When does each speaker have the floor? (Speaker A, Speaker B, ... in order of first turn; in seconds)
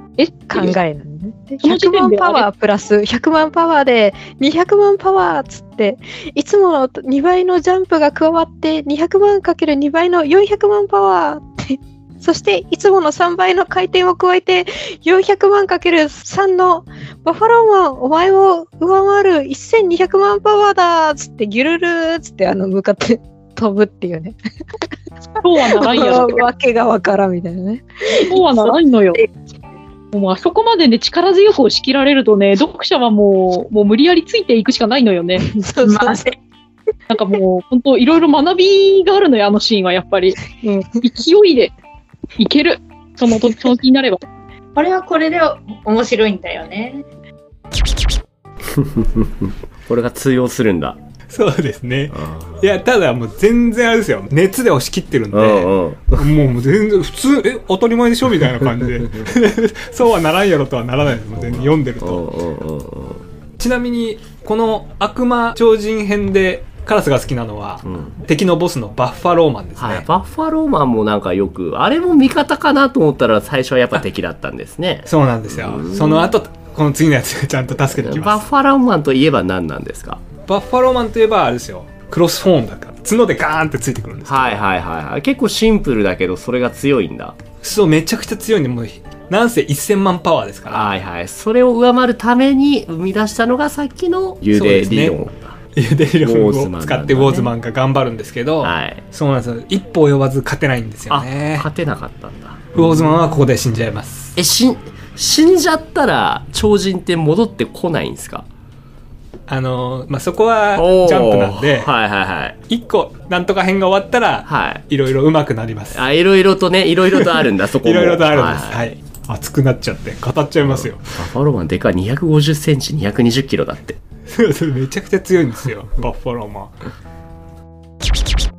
Speaker A: 0.2-0.8, 1.6-2.5, 25.4-26.5, 28.3-29.2, 30.1-35.4, 37.1-41.7, 42.4-44.2
Speaker B: 0.4-24.4, 25.7-28.3, 35.4-36.2
Speaker C: 35.8-36.3, 44.8-47.0
Speaker D: 48.8-51.0, 52.1-52.7, 55.3-56.2, 61.4-63.2, 67.8-68.2, 69.8-76.3, 77.8-80.2, 84.3-87.4, 90.7-95.6, 96.1-97.5, 98.6-99.0, 101.1-103.1, 104.4-108.5, 110.8-112.6, 114.5-114.8, 115.9-119.0, 120.6-124.0
Speaker E: 51.3-62.2, 63.6-70.1, 75.1-78.5, 80.5-84.6, 87.6-90.9, 94.5-95.2, 95.8-101.7, 102.7-104.3, 109.5-111.9, 112.7-116.0, 117.1-121.0, 124.3-126.7